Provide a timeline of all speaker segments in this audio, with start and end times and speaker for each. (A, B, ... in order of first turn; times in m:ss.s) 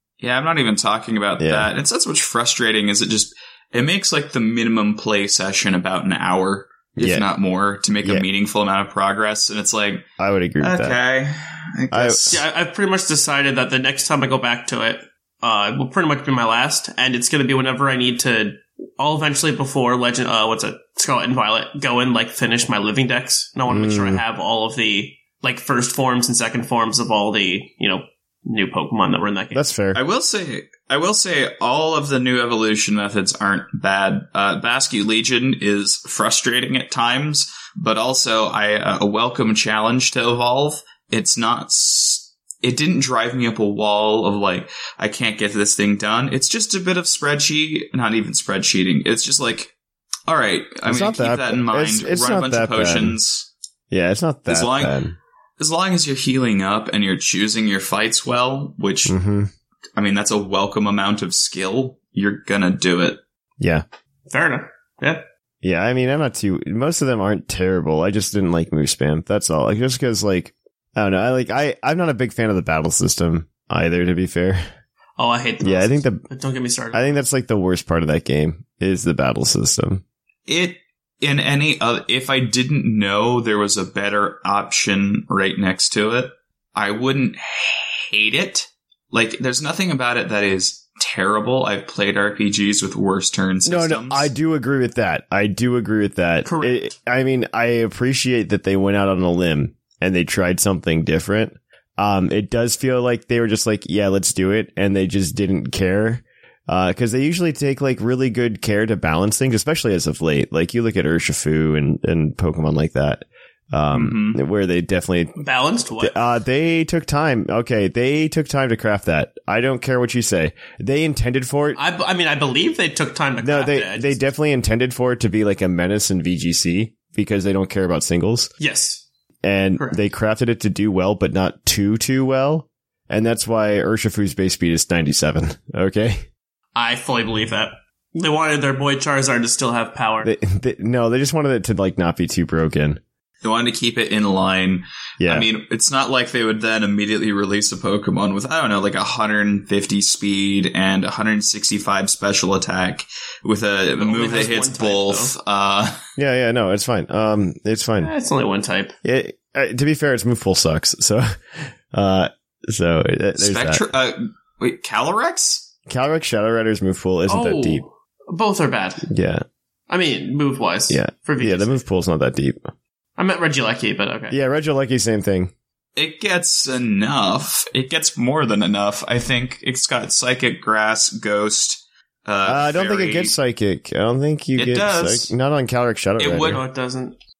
0:00.2-0:10.0 A
0:01.4-0:01.7 B
0:07.0-0:07.3 B
0:10.2-0:11.0 B
0:10.6-0:12.4 A
0:11.9-0:12.4 B
0:12.3-0:29.6 C
0:23.7-0:24.2 B
0:29.5-0:30.0 B
0:29.9-0:49.7 A
0:50.3-0:53.5 A
0:50.8-0:53.2 B
0:53.9-0:55.1 B
0:54.5-0:55.0 A
0:55.6-0:59.2 A
0:59.1-0:59.5 B
1:00.0-1:03.2 A
1:04.3-1:05.2 C
1:05.6-1:14.6 B
1:15.2-1:17.2 C
1:15.6-1:16.2 B
1:16.9-1:20.0 B
1:20.5-1:34.3 A
1:33.6-1:55.4 B
1:36.4-1:36.9 C
1:53.9-1:54.4 A
1:55.4-1:56.2 C
1:56.0-2:01.8 B
2:01.8-2:04.2 C
2:03.4-2:08.5 B
2:08.6-2:09.0 C
2:09.4-2:16.2 B
2:16.8-2:20.3 C
2:20.2-2:23.0 B
2:23.4-2:36.0 A
2:25.2-2:25.5 B
2:34.0-2:35.4 C
2:36.2-2:38.1 B
2:38.0-2:39.0 C
2:39.0-2:43.8 B
2:43.4-2:45.7 A
2:45.9-2:47.8 B
2:47.3-2:49.1 C
2:49.1-2:49.4 B
2:49.9-2:51.8 C
2:50.9-2:52.6 B
2:53.2-2:54.4 C
2:54.3-2:55.5 B
2:56.0-3:03.4 A
3:02.5-3:06.6 B
3:04.6-3:05.3 A
3:06.2-3:06.6 A
3:06.4-3:07.1 C